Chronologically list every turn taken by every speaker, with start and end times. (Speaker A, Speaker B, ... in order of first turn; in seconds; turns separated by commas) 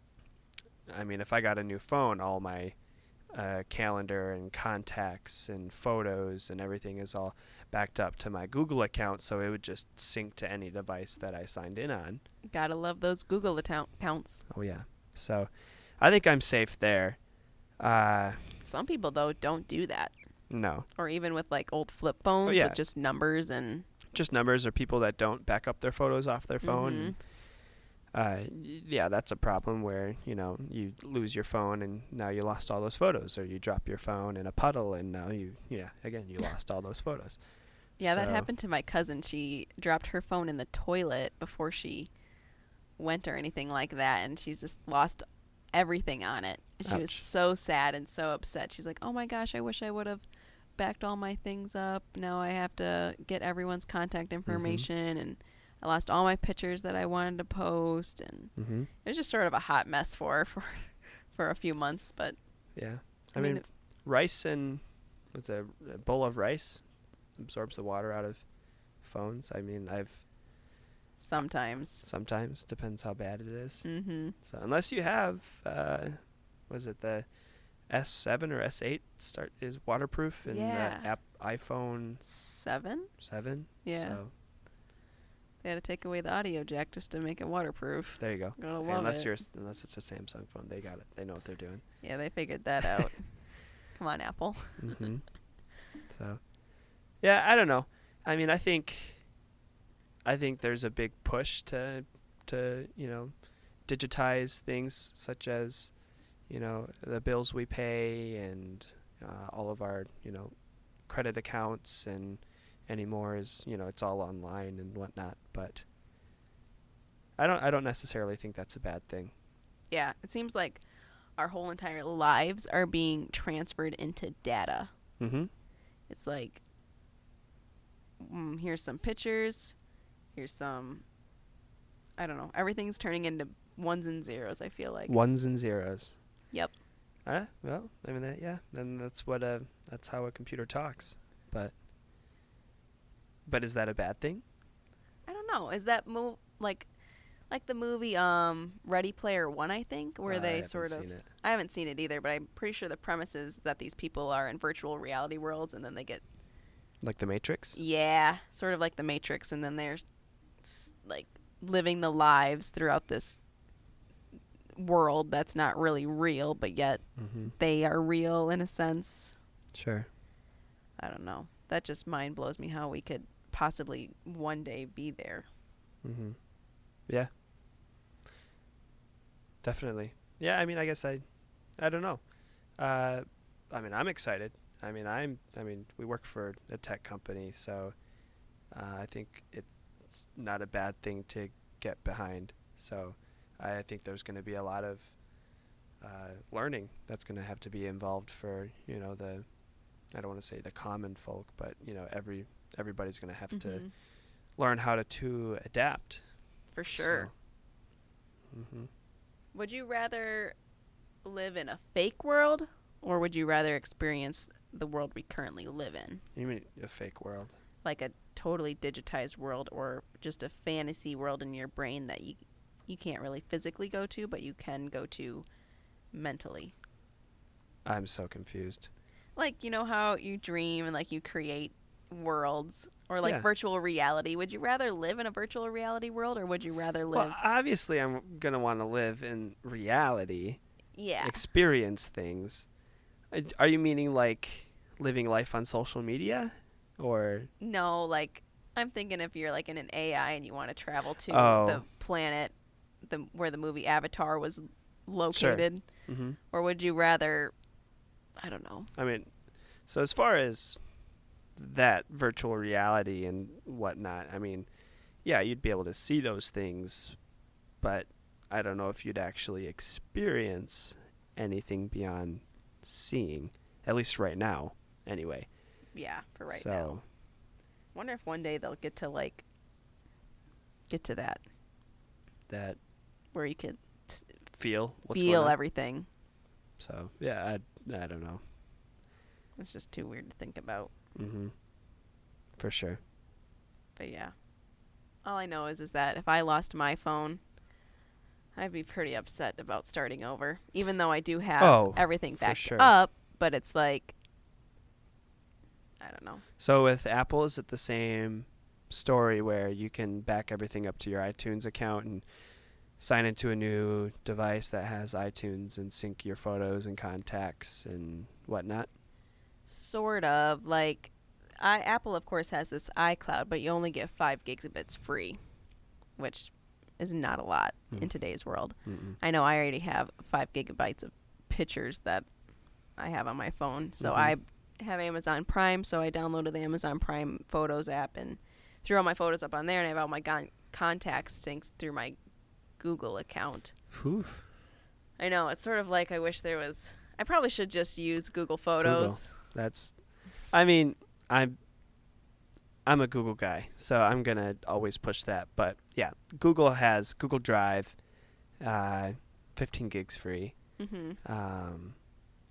Speaker A: 0.9-12.2, Speaker B: 12.5-14.5, Speaker A: 14.5-18.6, Speaker B: 18.6-23.9, Speaker A: 20.5-20.9, Speaker A: 22.4-22.8, Speaker A: 24.1-27.4, Speaker B: 26.6-27.2, Speaker A: 28.1-38.5, Speaker B: 38.0-42.2, Speaker B: 43.0-50.2, Speaker A: 46.9-47.2, Speaker B: 50.8-63.7, Speaker A: 54.5-54.9, Speaker A: 58.6-58.9, Speaker A: 62.8-70.3, Speaker B: 71.2-72.1, Speaker A: 72.0-82.2, Speaker B: 73.8-74.4, Speaker B: 80.5-81.2, Speaker B: 82.2-84.2, Speaker A: 83.2-84.3, Speaker B: 85.6-89.4, Speaker A: 88.2-92.0, Speaker B: 92.0-95.0, Speaker A: 94.8-99.4, Speaker A: 100.2-115.9, Speaker A: 117.4-119.3, Speaker B: 119.9-124.9, Speaker A: 125.2-125.5, Speaker B: 126.1-126.6, Speaker B: 128.2-129.8, Speaker B: 130.3-131.1, Speaker B: 132.2-135.2, Speaker A: 135.1-136.5, Speaker A: 137.2-141.8, Speaker A: 143.4-144.4, Speaker B: 145.3-146.9, Speaker B: 147.5-156.2, Speaker A: 150.3-151.3, Speaker A: 157.0-157.8, Speaker B: 157.8-160.0, Speaker B: 160.6-163.4, Speaker B: 164.7-169.4, Speaker A: 167.2-167.5, Speaker A: 169.7-170.1, Speaker B: 171.0-175.5, Speaker A: 176.0-177.4, Speaker A: 179.6-207.3, Speaker B: 203.5-203.9, Speaker B: 206.7-207.3, Speaker A: 208.5-208.9, Speaker B: 209.5-210.6, Speaker B: 211.2-216.2, Speaker A: 216.3-217.6, Speaker B: 217.8-225.5, Speaker B: 226.1-226.7, Speaker A: 227.8-228.9, Speaker B: 229.4-237.4, Speaker A: 233.2-233.5, Speaker A: 237.1-240.7, Speaker B: 240.9-241.4, Speaker A: 241.2-242.8, Speaker A: 243.3-247.5, Speaker B: 247.6-257.6, Speaker A: 251.3-251.8, Speaker A: 255.3-256.4, Speaker B: 258.4-258.9, Speaker A: 258.9-275.9, Speaker B: 275.9-277.2, Speaker A: 276.5-277.1, Speaker B: 277.9-279.4, Speaker B: 280.9-281.4, Speaker A: 282.5-282.8, Speaker B: 283.3-284.4, Speaker A: 284.5-285.6, Speaker B: 285.1-286.1, Speaker A: 286.8-288.4, Speaker B: 289.6-290.9, Speaker A: 291.1-291.9, Speaker A: 292.6-293.0, Speaker B: 294.0-294.5, Speaker B: 295.2-297.4, Speaker B: 298.6-304.1, Speaker A: 301.6-302.9, Speaker B: 306.0-306.4, Speaker A: 306.6-318.9, Speaker B: 319.7-325.4, Speaker B: 326.2-332.3, Speaker A: 328.9-329.2, Speaker B: 332.9-342.2, Speaker A: 334.0-334.4, Speaker B: 342.8-343.8, Speaker A: 343.9-344.5, Speaker B: 345.2-349.5, Speaker A: 348.8-351.7, Speaker A: 352.9-362.2, Speaker B: 360.8-361.2